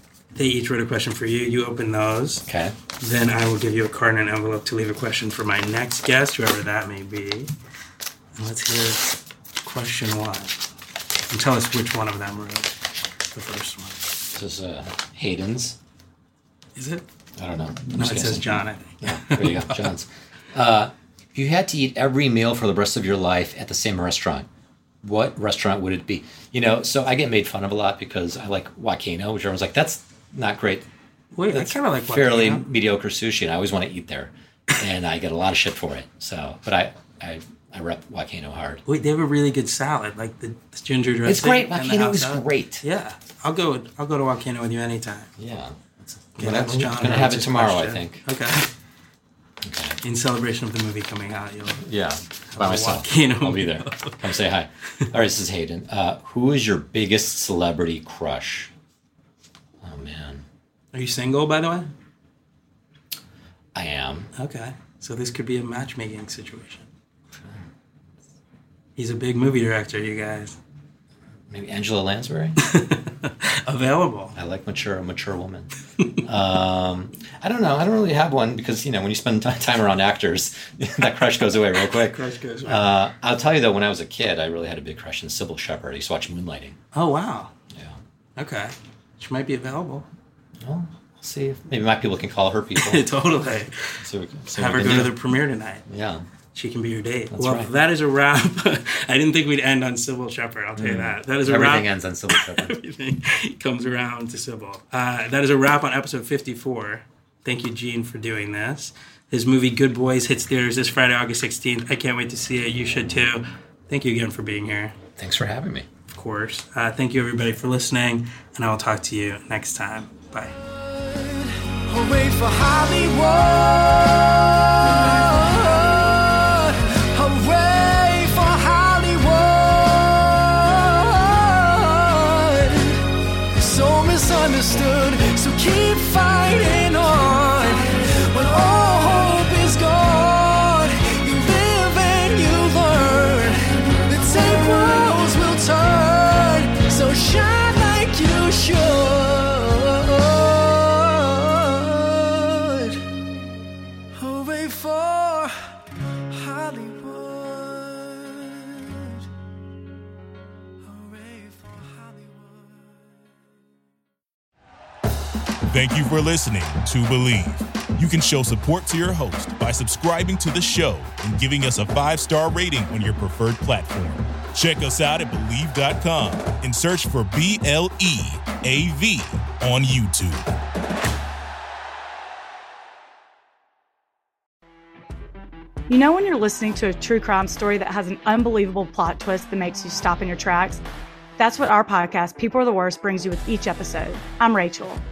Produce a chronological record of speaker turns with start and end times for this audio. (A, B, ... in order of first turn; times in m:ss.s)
0:00.3-0:07.5 A
0:02.5-0:02.7 B
0:08.4-0:10.6 A
0:11.3-0:12.7 A
0:13.3-0:14.1 A
0:14.3-0:15.8 B
0:16.8-0:17.0 A
0:17.4-0:18.5 B
0:17.9-0:19.9 A
0:19.0-0:24.5 B
0:25.0-0:30.8 B
0:31.3-0:32.6 A
0:31.5-0:38.8 B
0:38.8-0:45.3 A
0:41.2-0:42.8 B
0:45.4-0:48.2 B
0:46.4-0:48.7 A
0:49.6-0:50.0 B
0:50.0-0:51.8 A
0:51.8-0:58.7 B
0:52.5-0:54.3 A
0:59.8-1:00.4 B
1:00.9-1:01.9 A
1:03.7-1:04.3 B
1:04.4-1:06.9 A
1:09.0-1:10.6 A
1:11.5-1:12.6 B
1:12.6-1:14.3 A
1:14.3-1:15.7 B
1:16.2-1:26.8 B
1:21.7-1:22.9 A
1:26.9-1:27.5 A
1:27.7-1:28.0 B
1:28.4-1:30.1 A
1:30.6-1:33.0 B
1:32.8-1:34.0 A
1:34.0-1:35.1 B
1:34.5-1:35.8 A
1:35.9-1:36.2 B
1:36.5-1:55.0 A
1:37.3-1:37.7 B
1:40.8-1:42.8 B
1:55.2-1:55.8 B
1:56.1-2:00.6 A
2:00.6-2:33.0 C
2:34.2-2:35.5 C
2:36.3-2:39.2 C
2:40.8-2:43.2 C
2:45.7-3:00.5 D
3:05.9-3:10.8 E
3:11.4-3:15.0 E